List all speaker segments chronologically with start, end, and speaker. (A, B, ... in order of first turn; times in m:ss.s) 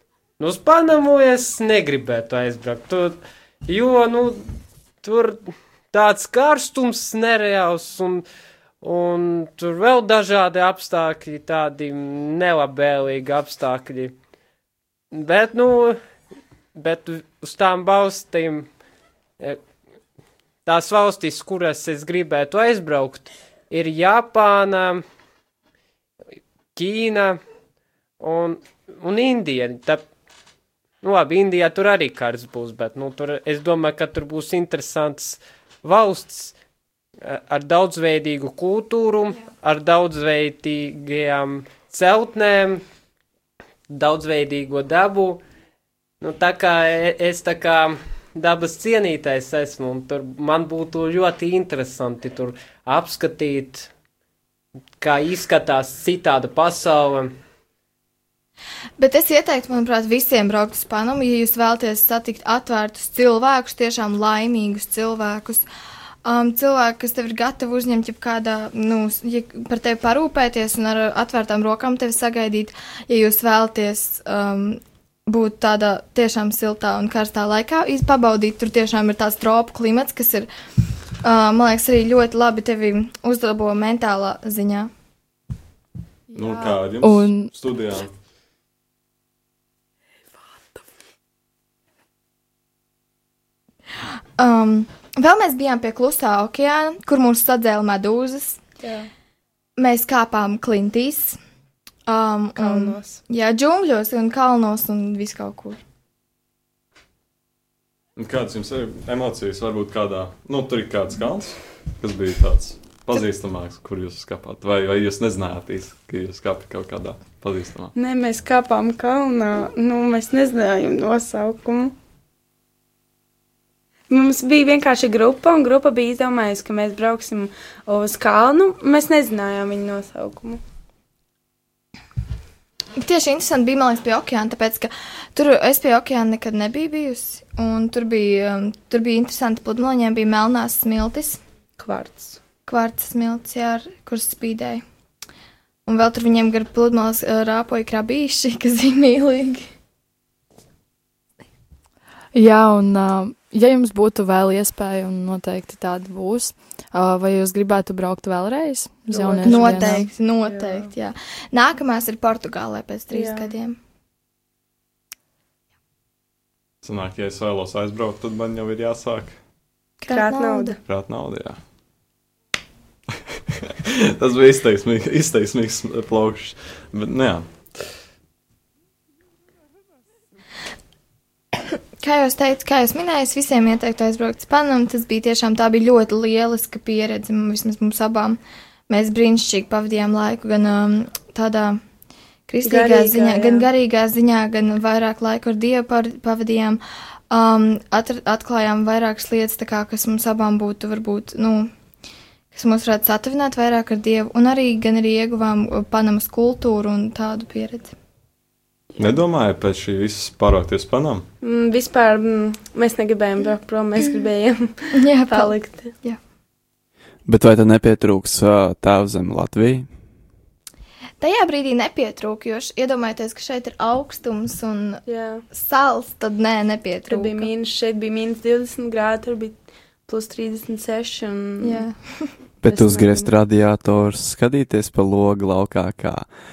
0:00.4-0:04.4 A
0:05.0-0:08.2 A
0:08.8-0:14.2 A
0:15.1-0:16.0 A
0:16.8-0:18.7 A
0:20.7-0:25.0 A
0:26.8-0:27.4 A
0:28.2-0:30.0 A
0:31.0-0:36.5 A
0:37.2-0:42.8 A
0:43.9-0:45.4 A
0:46.2-0:53.9 A
0:55.0-0:57.3 A
0:59.0-1:05.7 B
1:06.2-1:20.5 B
1:21.2-1:24.9 B
1:26.3-1:28.1 C
1:27.0-1:27.5 D
1:34.4-1:38.6 B
1:38.8-1:39.1 E
1:39.8-1:41.4 B
1:42.1-1:45.8 B
1:42.6-1:43.2 E
1:48.2-1:57.9 C
1:58.0-2:02.0 E
2:04.1-2:10.6 E
2:13.0-2:21.4 B
2:21.8-2:22.4 E
2:22.7-2:24.8 B
2:25.9-2:29.7 B
2:32.3-2:40.1 D
2:39.1-2:40.9 E
2:39.4-2:43.8 B
2:43.1-2:43.5 E
2:46.8-2:49.4 C
2:50.0-2:50.8 B
2:50.1-2:50.8 E
2:50.9-2:51.6 C
2:53.2-2:57.9 C
3:02.0-3:11.8 B
3:12.5-3:21.7 B
3:12.6-3:13.7 E
3:22.5-3:27.9 B
3:29.0-3:31.3 C
3:31.4-3:35.9 E
3:34.9-3:36.2 B
3:37.3-3:39.9 F
3:41.2-3:47.5 B
3:45.1-3:45.4 E
3:47.1-3:51.8 E
3:51.6-3:52.3 B
3:52.6-3:56.3 F
3:52.6-3:53.3 E